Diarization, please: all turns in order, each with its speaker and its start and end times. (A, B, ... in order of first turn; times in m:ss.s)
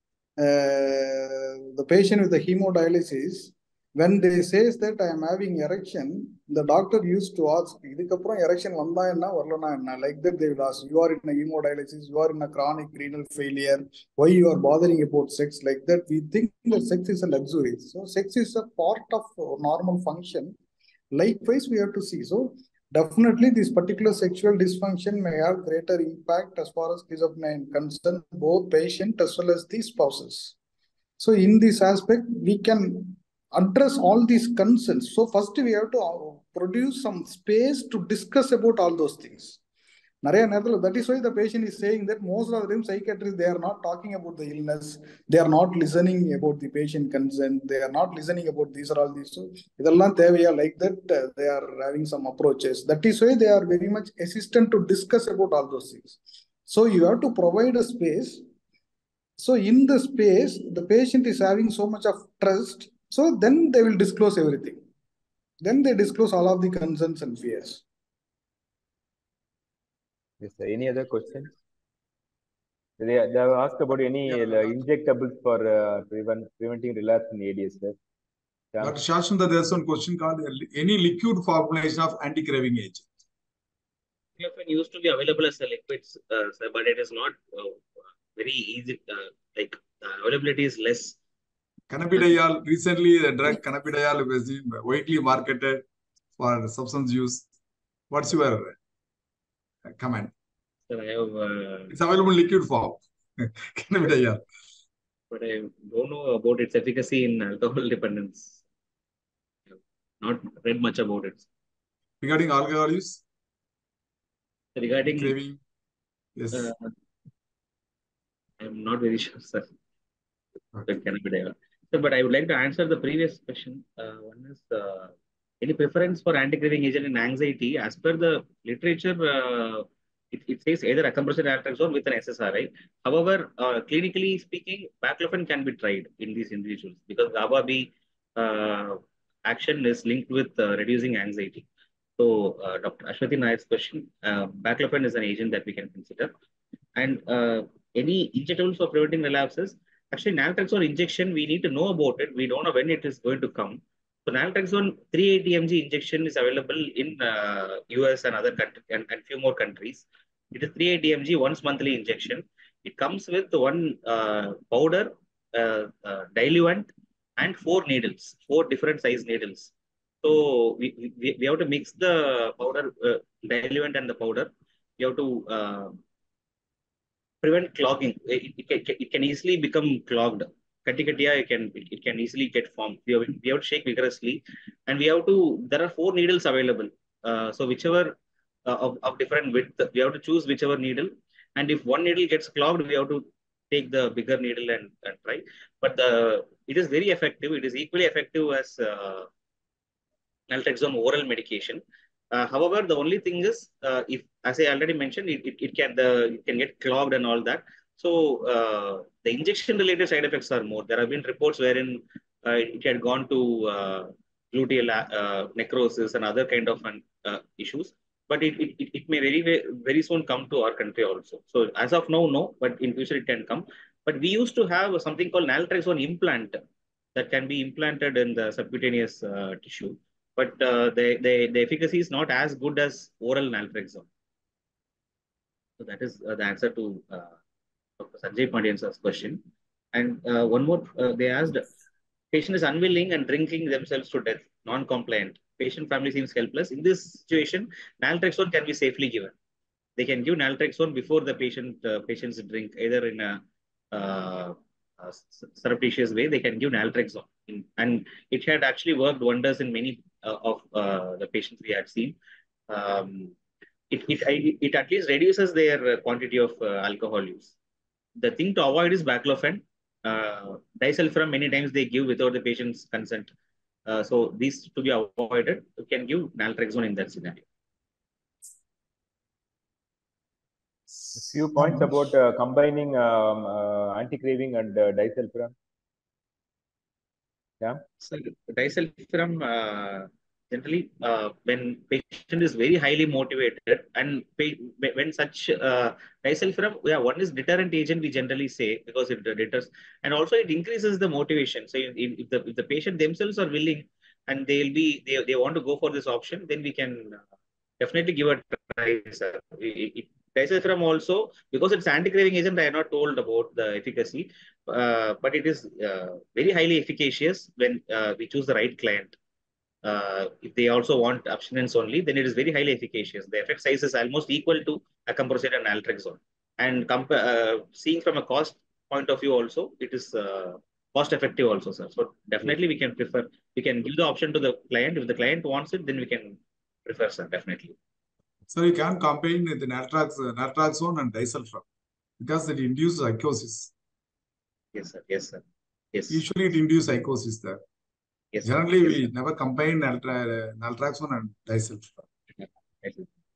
0:00.4-0:20.5 A
0:21.1-0:30.5 A
0:31.2-0:39.6 A
0:40.2-0:58.4 A
0:59.4-1:04.8 A
1:05.6-1:07.8 A
1:10.4-1:11.5 B
1:13.0-1:18.0 B
1:18.7-1:19.0 B
1:18.8-1:23.1 C
1:24.4-1:31.2 D
1:31.9-1:35.8 C
1:36.4-1:37.5 C
1:38.1-1:38.8 C
1:39.8-1:40.3 C
1:40.9-1:41.9 D
1:41.9-1:44.4 C
1:45.3-1:48.6 D
1:49.7-1:51.4 D
1:52.2-1:53.2 C
1:54.7-1:55.4 D
1:55.2-1:55.6 C
1:56.4-1:56.7 C
1:56.5-1:56.9 D
1:58.6-1:59.7 D
2:00.9-2:21.6 D
2:22.2-2:26.3 D
2:27.0-2:49.7 D
2:50.2-2:56.0 D
2:57.4-3:19.3 D
3:20.5-3:21.8 D
3:22.3-3:46.6 D
3:47.1-3:54.1 D
3:55.8-3:57.3 D
3:58.0-3:59.4 D
3:59.9-4:01.7 D
4:02.3-4:09.3 D
4:10.0-4:13.4 D
4:13.9-4:22.2 D
4:22.7-4:23.3 D
4:23.9-4:27.5 D
4:28.2-4:33.3 D
4:33.9-4:37.4 D
4:41.1-4:45.5 B
4:48.0-5:07.2 D
5:07.8-5:19.2 D
5:19.8-5:37.8 D
5:38.5-5:41.6 C
5:42.2-5:43.7 C
5:44.7-5:46.2 D
5:46.1-5:47.6 C
5:48.3-5:49.1 D
5:48.4-5:52.0 C
5:52.4-5:53.1 D